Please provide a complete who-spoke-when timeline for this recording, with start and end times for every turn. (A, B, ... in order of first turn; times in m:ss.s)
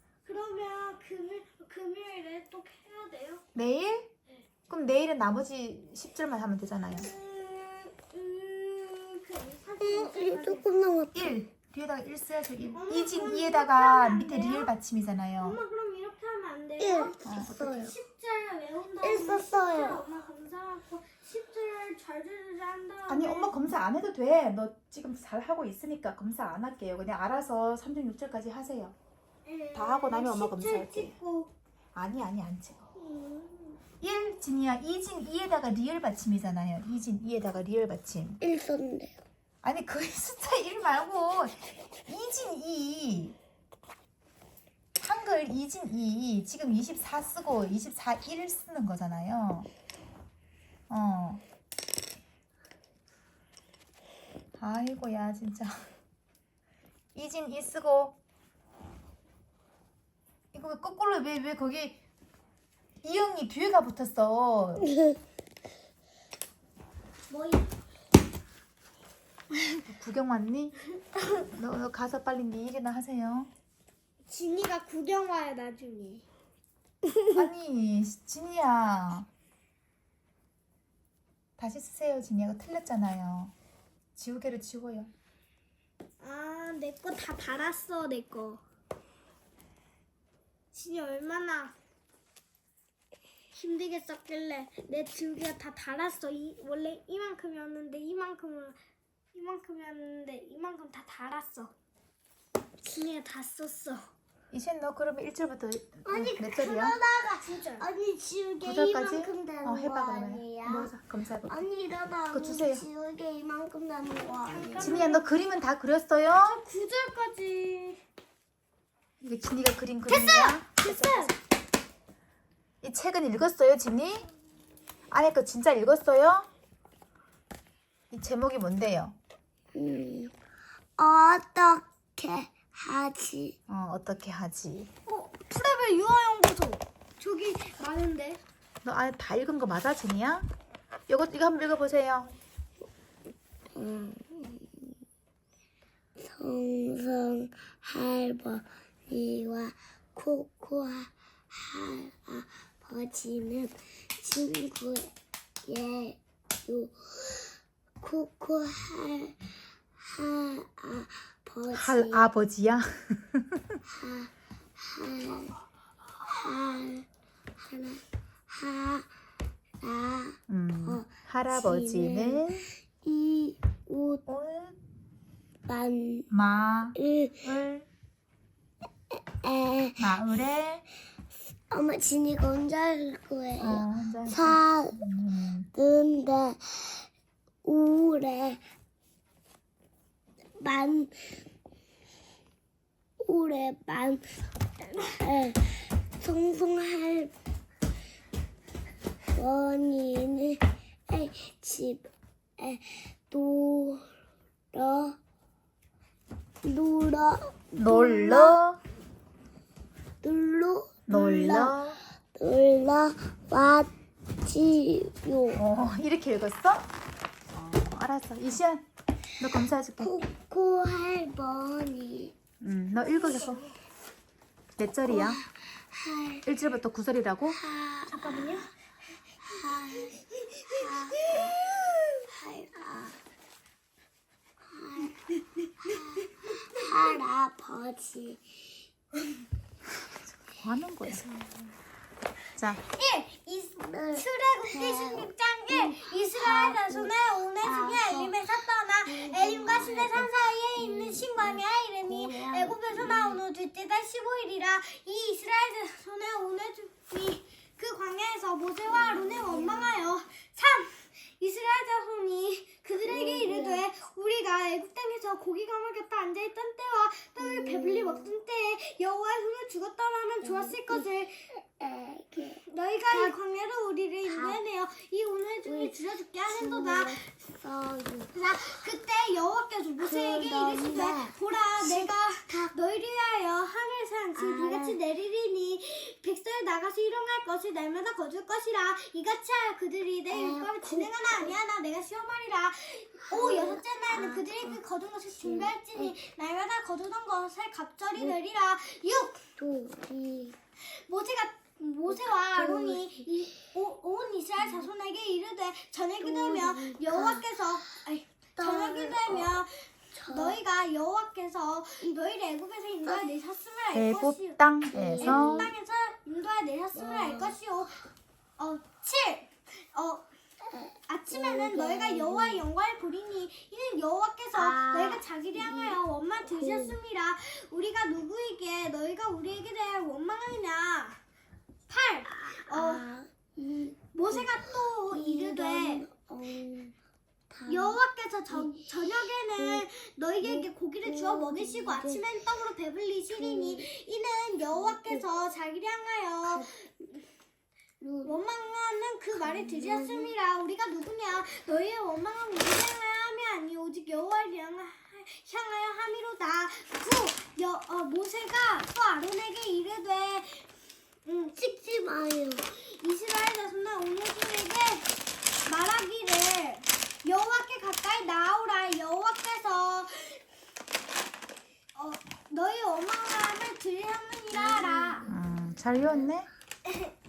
0:00.2-0:03.4 A
0:03.5-0:04.1 B
0:04.7-0:07.1 B
0:07.0-0:10.7 A
0:09.8-0:11.3 C
0:11.1-0:15.6 B
0:12.7-0:14.7 A
0:15.4-0:23.5 A
0:16.8-0:17.9 C
0:17.2-0:17.8 B
0:19.0-0:20.0 C
0:23.1-0:29.0 B
0:29.4-0:31.5 A
0:29.7-0:31.1 B
0:31.9-0:32.9 B
0:32.9-0:33.8 A
0:34.0-0:38.4 B
0:38.4-0:39.1 C
0:39.6-0:43.4 B
0:45.0-0:49.7 B
0:50.9-0:51.4 B
0:54.6-0:55.8 B
0:57.1-0:58.2 B
1:00.5-1:02.0 B
1:03.0-1:04.9 B
1:07.3-1:07.7 A
1:09.8-1:10.8 B
1:11.4-1:13.5 B
1:14.3-1:16.2 A
1:17.3-1:19.3 B
1:21.6-1:23.5 B
1:24.2-1:25.1 B
1:26.2-1:28.6 A
1:30.7-1:31.7 A
1:33.5-1:38.8 A
1:39.3-1:41.7 A
1:42.8-1:44.1 A
1:44.5-1:47.0 B
1:46.1-1:46.4 C
1:46.1-1:47.9 A
1:47.8-1:50.9 C
1:48.6-1:51.6 B
1:51.4-1:55.1 C
1:52.3-1:52.8 B
1:54.4-1:55.3 A
1:54.8-1:56.6 B
1:56.3-1:58.0 A
1:59.2-2:01.3 B
2:00.0-2:01.3 A
2:02.8-2:04.3 B
2:05.1-2:06.5 B
2:08.1-2:09.2 B
2:09.7-2:10.3 C
2:11.0-2:13.6 C
2:13.7-2:14.9 B
2:15.1-2:18.4 A
2:18.8-2:20.5 B
2:21.1-2:22.3 B
2:23.7-2:24.7 C
2:26.2-2:35.1 C
2:35.6-2:39.4 C
2:40.0-2:42.3 C
2:41.7-2:43.8 B
2:44.0-2:45.5 C
2:46.2-2:47.0 C
2:47.6-2:49.1 C
2:49.8-2:54.2 C
2:50.5-2:52.7 B
2:54.3-2:54.8 B
2:55.7-2:56.3 C
2:56.3-2:57.8 B
2:57.0-2:57.5 C
2:59.4-3:00.1 C
3:00.0-3:00.8 B
3:01.7-3:05.0 C
3:03.6-3:05.7 B
3:05.7-3:07.1 C
3:07.6-3:08.6 C
3:10.6-3:11.4 C
3:13.2-3:14.2 C
3:14.9-3:17.3 C
3:19.3-3:22.1 C
3:22.6-3:24.1 C
3:24.7-3:25.2 C
3:26.6-3:28.6 C
3:27.8-3:28.8 B
3:30.2-3:33.9 C
3:31.1-3:32.0 B
3:34.4-3:35.6 C
3:35.5-3:36.9 B
3:37.5-3:38.8 B
3:39.4-3:40.1 B
3:40.0-3:42.3 C
3:42.6-3:43.6 B
3:42.9-3:43.7 A
3:44.8-3:45.4 B
3:45.0-3:46.4 C
3:46.4-3:47.6 B
3:47.6-3:48.3 C
3:48.1-3:48.7 A
3:49.5-3:53.2 C
3:49.9-3:51.4 A
3:54.7-3:55.2 C
3:55.6-3:57.2 A
3:55.8-3:58.6 C
4:00.6-4:01.2 B
4:02.8-4:31.5 A
4:03.8-4:08.4 C
4:09.0-4:13.4 C
4:18.9-4:20.0 C
4:23.0-4:23.8 C
4:27.4-4:28.3 C
4:30.4-4:31.0 C
4:31.6-4:33.3 C
4:32.6-4:37.2 A
4:34.3-4:34.6 C
4:35.6-4:38.3 C
4:38.3-4:59.5 A
4:40.0-4:42.7 C
4:44.3-4:45.0 C
4:50.3-4:51.6 C
4:53.3-4:54.8 C
4:55.4-4:56.1 C
4:59.6-5:00.5 C
5:00.8-5:14.6 A
5:02.1-5:03.4 C
5:04.6-5:04.9 C
5:06.2-5:07.5 C
5:08.6-5:09.6 C
5:10.1-5:10.6 C
5:13.0-5:13.3 C
5:13.9-5:15.7 B
5:14.9-5:15.7 C
5:15.2-5:18.0 A
5:16.9-5:17.6 C
5:18.6-5:20.2 A
5:20.7-5:22.6 C
5:21.1-5:31.2 A
5:24.5-5:27.0 C
5:31.9-5:33.1 A
5:32.3-5:36.9 C
5:34.1-5:36.0 A
5:37.5-5:39.9 C
5:37.7-5:46.8 A
5:40.4-5:42.2 C
5:43.3-5:43.9 C
5:44.7-5:45.2 C
5:46.4-5:46.7 C
5:48.0-5:48.4 C
5:48.2-6:00.7 A
5:49.4-5:50.3 C
6:01.2-6:01.6 A
6:01.5-6:02.6 C
6:02.7-6:05.1 A
6:05.6-6:10.4 A
6:11.9-6:15.3 A
6:14.5-6:16.3 C
6:15.3-6:16.5 B